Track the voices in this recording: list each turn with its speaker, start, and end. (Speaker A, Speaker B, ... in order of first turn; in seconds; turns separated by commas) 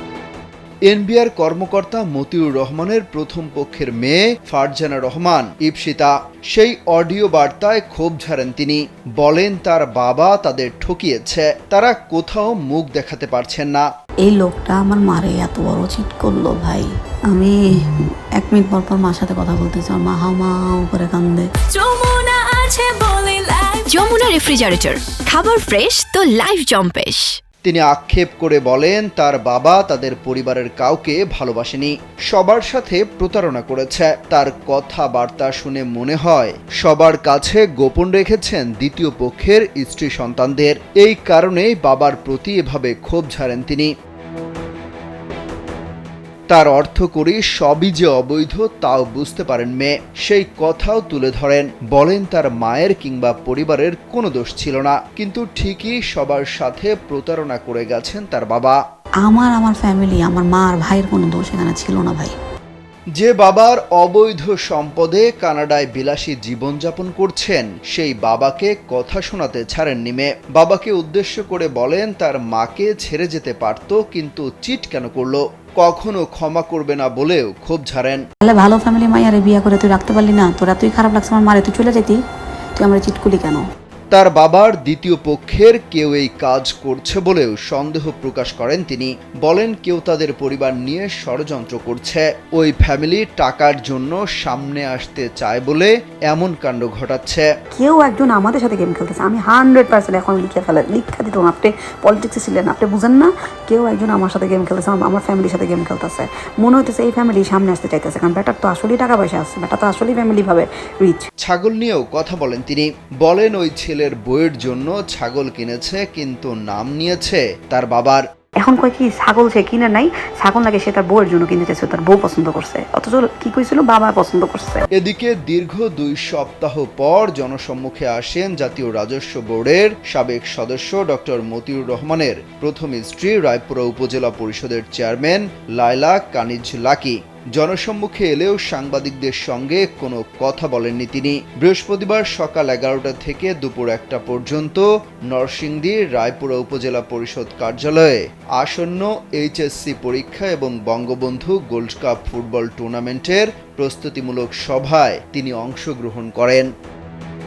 Speaker A: 0.9-13.8, Speaker B: 14.2-21.5, Speaker C: 21.7-27.2, Speaker A: 27.6-43.9, Speaker A: 46.5-58.8, Speaker B: 59.2-62.3, Speaker A: 63.2-78.2, Speaker B: 78.4-82.2, Speaker B: 82.8-83.7, Speaker A: 84.1-97.5, Speaker B: 97.8-111.2, Speaker A: 111.4-118.2, Speaker B: 118.6-124.8, Speaker A: 124.9-156.7